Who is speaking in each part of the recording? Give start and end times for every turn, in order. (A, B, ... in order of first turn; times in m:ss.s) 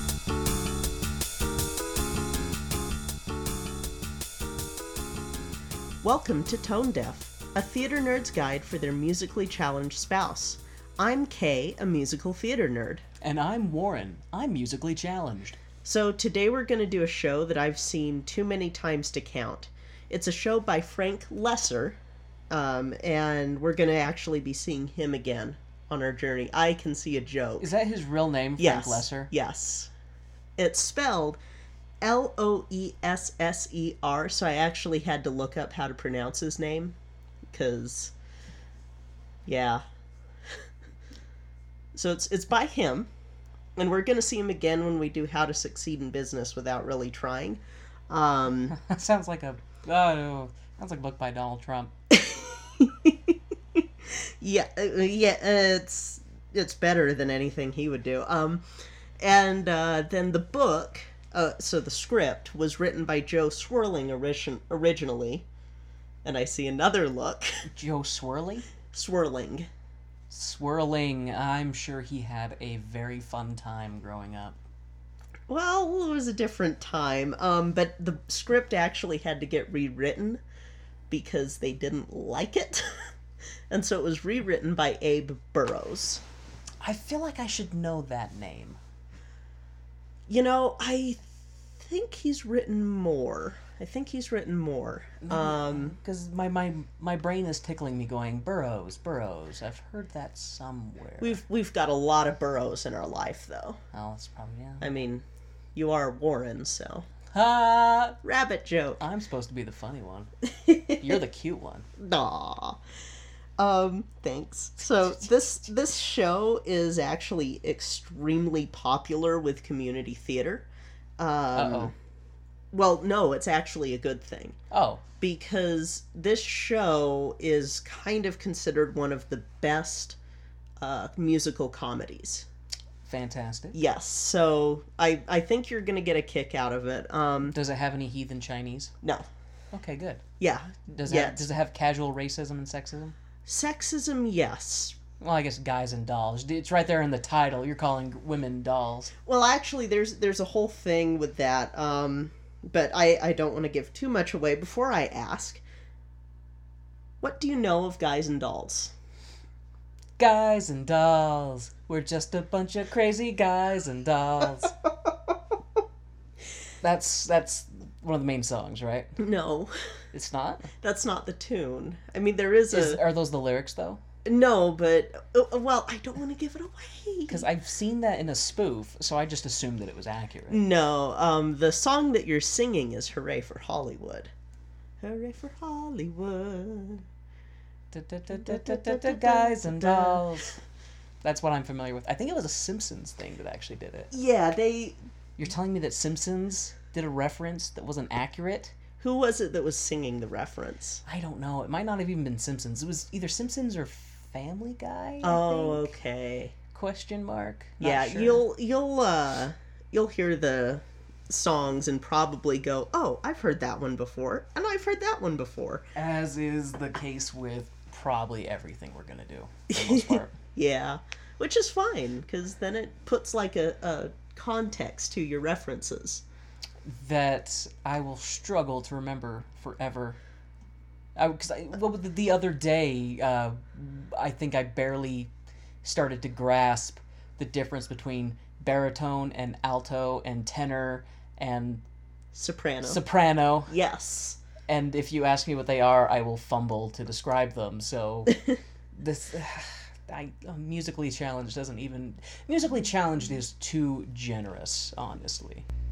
0:06.0-0:13.0 A
0:13.2-0:15.6 B
0:15.8-0:22.0 A
0:22.5-0:27.7 A
0:27.6-0:29.3 B
0:28.6-0:29.9 A
0:30.6-0:31.4 A
0:32.0-0:37.0 A
0:37.5-0:38.1 A
0:39.4-0:39.8 A
0:41.9-0:43.1 A
0:43.8-0:48.8 A
0:48.7-0:51.9 B
0:52.1-0:58.6 A
0:59.2-1:05.4 A
1:06.2-1:07.5 A
1:07.7-1:08.7 B
1:08.9-1:09.7 A
1:10.3-1:14.6 B
1:15.5-1:20.4 A
1:21.1-1:22.8 A
1:23.7-1:26.2 A
1:26.8-1:28.8 B
1:30.3-1:36.0 A
1:35.2-1:41.4 B
1:41.2-1:43.8 A
1:43.9-1:45.0 B
1:44.8-1:45.2 A
1:45.7-1:47.1 A
1:47.3-1:48.2 B
1:48.2-1:49.0 A
1:49.0-1:50.3 B
1:50.4-1:51.1 A
1:50.9-1:51.9 B
1:52.0-1:52.8 A
1:53.6-2:01.9 A
2:01.5-2:01.9 B
2:02.7-2:04.6 A
2:04.7-2:05.0 B
2:05.2-2:10.2 A
2:10.8-2:12.5 A
2:13.0-2:13.8 B
2:13.7-2:17.5 A
2:17.5-2:18.9 B
2:19.7-2:20.2 B
2:20.4-2:21.5 A
2:20.9-2:23.2 B
2:23.4-2:25.0 A
2:25.2-2:29.1 B
2:29.2-2:35.6 A
2:37.2-2:38.9 A
2:40.2-2:44.7 B
2:46.8-2:49.2 B
2:49.2-2:49.7 A
2:50.1-2:50.7 B
2:50.8-2:53.0 A
2:52.7-2:54.0 B
2:54.2-2:57.4 A
2:57.3-3:00.6 B
3:00.5-3:04.3 A
3:05.0-3:07.0 A
3:07.9-3:10.6 B
3:08.3-3:10.2 A
3:11.2-3:14.1 B
3:14.1-3:15.0 A
3:15.4-3:18.8 B
3:19.0-3:21.0 A
3:21.0-3:25.9 B
3:25.2-3:26.5 A
3:26.7-3:28.4 B
3:27.8-3:35.8 A
3:35.9-3:40.4 B
3:39.7-3:46.2 A
3:46.8-3:50.2 B
3:51.2-3:55.3 B
3:55.8-4:01.8 B
4:02.3-4:03.0 A
4:02.8-4:03.7 B
4:03.7-4:04.4 A
4:04.7-4:08.4 B
4:08.9-4:15.6 B